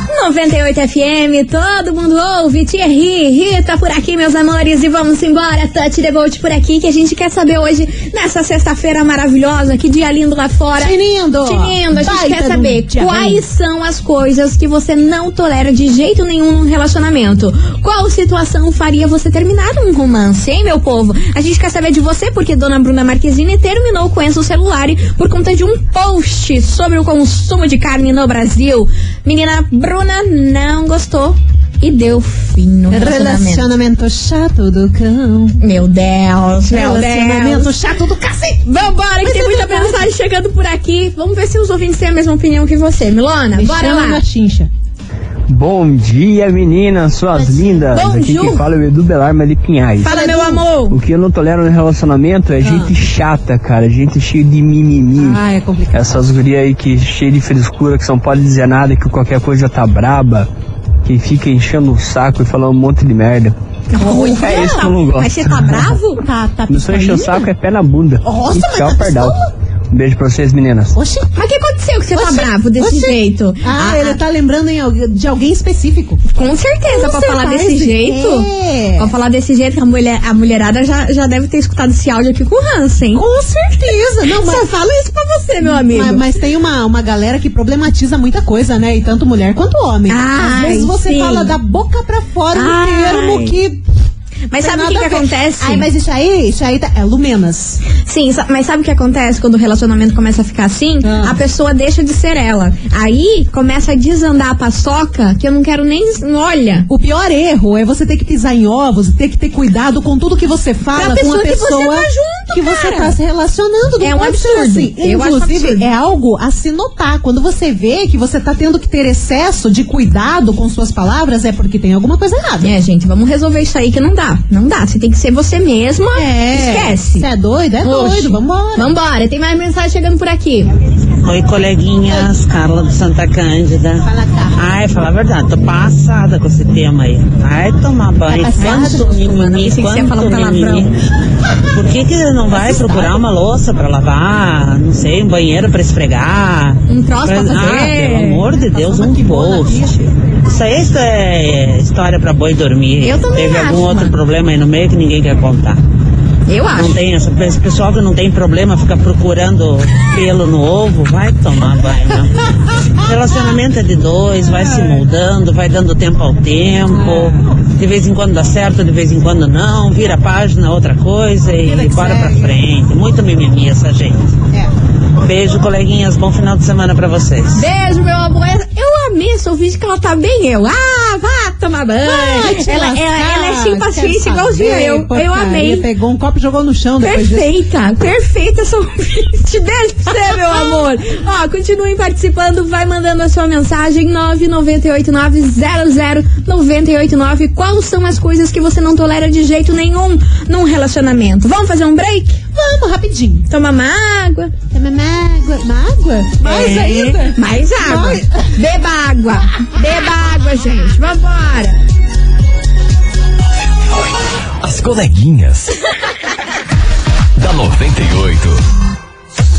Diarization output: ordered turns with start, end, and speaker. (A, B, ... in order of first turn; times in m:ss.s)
0:00.1-0:33.7 A
0:10.8-0:13.4 B
0:32.9-0:35.6 B
0:35.6-0:37.7 A
0:36.7-0:38.7 B
0:38.6-0:44.2 A
0:39.2-0:40.1 B
0:43.5-0:44.7 B
0:45.5-0:50.1 C
0:47.9-0:48.6 A
0:50.0-0:50.6 B
0:50.0-0:51.0 A
0:50.9-1:00.5 C
0:52.6-0:52.9 B
0:55.2-0:56.2 B
1:01.0-1:05.9 C
1:03.9-1:06.2 A
1:04.0-1:04.7 B
1:06.2-1:07.5 B
1:06.7-1:09.4 C
1:08.2-1:09.5 B
1:09.9-1:11.0 C
1:10.9-1:11.4 B
1:11.4-1:14.2 A
1:12.1-1:16.2 B
1:16.3-1:23.2 A
1:16.9-1:19.1 B
1:23.1-1:24.7 B
1:24.2-1:26.3 A
1:25.6-1:33.8 B
1:30.1-1:31.6 A
1:32.5-1:33.6 A
1:34.5-1:35.9 A
1:34.6-1:37.8 B
1:38.0-1:46.9 A
1:41.0-1:41.4 B
1:46.9-2:02.7 B
1:50.9-1:53.2 A
1:54.0-1:55.9 A
2:02.6-2:07.3 A
2:06.2-2:08.9 B
2:07.8-2:10.7 A
2:11.2-2:21.0 D
2:14.0-2:14.6 B
2:18.3-2:19.1 B
2:18.6-2:20.9 A
2:21.7-2:29.9 D
2:22.5-2:23.2 B
2:26.9-2:28.5 A
2:28.6-2:30.1 B
2:30.4-2:35.8 D
2:33.0-2:34.2 A
2:36.5-2:37.0 A
2:36.8-2:54.4 D
2:46.9-2:47.4 B
2:51.6-2:52.6 B
2:55.2-2:57.7 D
2:57.5-3:05.9 A
3:02.0-3:07.5 B
3:07.0-3:22.4 A
3:10.3-3:10.8 B
3:22.5-3:23.5 B
3:23.5-3:24.5 A
3:24.7-3:28.6 B
3:26.4-3:31.8 A
3:34.6-3:35.7 E
3:37.4-3:38.6 E